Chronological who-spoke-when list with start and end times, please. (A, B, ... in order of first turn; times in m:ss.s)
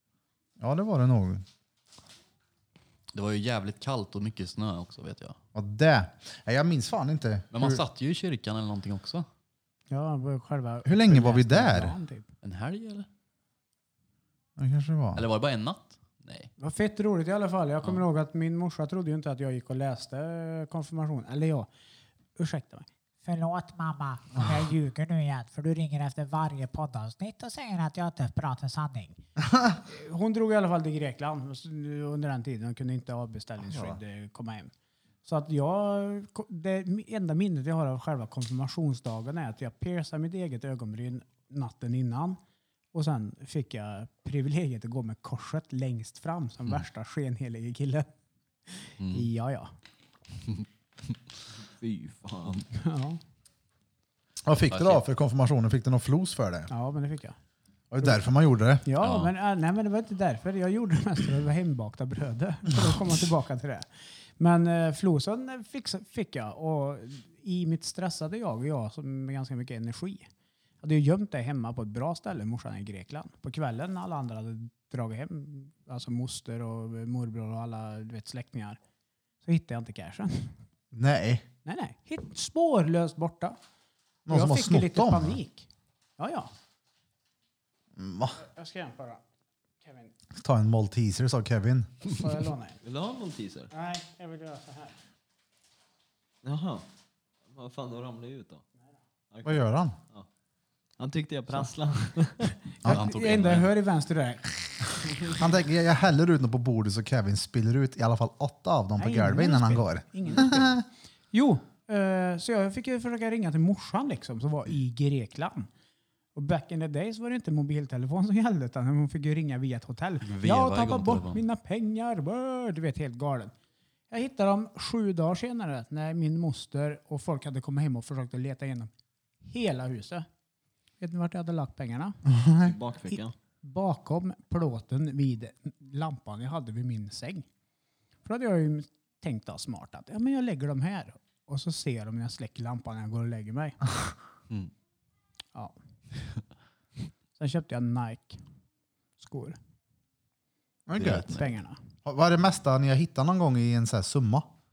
0:00.6-0:01.4 A
0:03.1-0:05.4 B
0:05.6-0:07.8 A
0:07.5-0:09.3 B
0:09.9-0:12.3 C
0:10.8-0:11.9 A
0:12.4-0:13.1 B
0:14.6-0:15.2 A
0:15.2-0:16.5 B
0:16.6-0:21.7 C
0:22.4-0:22.9 C
0:23.2-0:29.2 D
0:29.9-0:34.7 C
0:33.7-0:34.0 A
0:35.2-0:42.4 C
0:42.9-0:48.1 C
0:48.7-0:49.7 C
0:49.0-0:49.3 B
0:51.6-0:52.6 E
0:52.7-0:53.2 C
0:54.5-0:56.7 A
0:54.7-0:55.0 B
0:56.7-0:57.4 C
0:57.9-0:58.8 A
0:58.8-1:03.9 C
0:59.0-0:59.3 B
1:04.4-1:10.3 C
1:10.8-1:18.8 C
1:19.4-1:20.5 C
1:20.9-1:21.5 A
1:21.6-1:23.6 C
1:24.3-1:25.4 A
1:24.3-1:26.5 C
1:28.0-1:28.4 A
1:28.4-1:29.2 C
1:29.8-1:30.1 C
1:30.4-1:32.0 A
1:32.1-1:32.8 C
1:32.8-1:33.7 E
1:33.7-1:35.0 C
1:36.4-1:36.8 E
1:37.5-1:38.6 E
1:39.3-1:39.6 E
1:39.4-1:40.0 A
1:41.0-1:42.5 E
1:42.8-1:45.4 C
1:42.8-1:43.1 A
1:42.9-1:43.7 B
1:45.2-1:50.8 A
1:49.0-1:55.7 C
1:56.4-2:03.5 C
2:00.2-2:01.4 B
2:04.1-2:08.9 C
2:09.4-2:10.3 C
2:11.0-2:12.2 C
2:12.3-2:12.7 A
2:12.6-2:13.3 E
2:13.6-2:17.5 C
2:18.2-2:23.8 C
2:27.4-2:28.4 C
2:29.2-2:29.6 C
2:30.9-2:31.4 A
2:31.0-2:31.3 B
2:31.0-2:31.8 C
2:32.0-2:34.5 A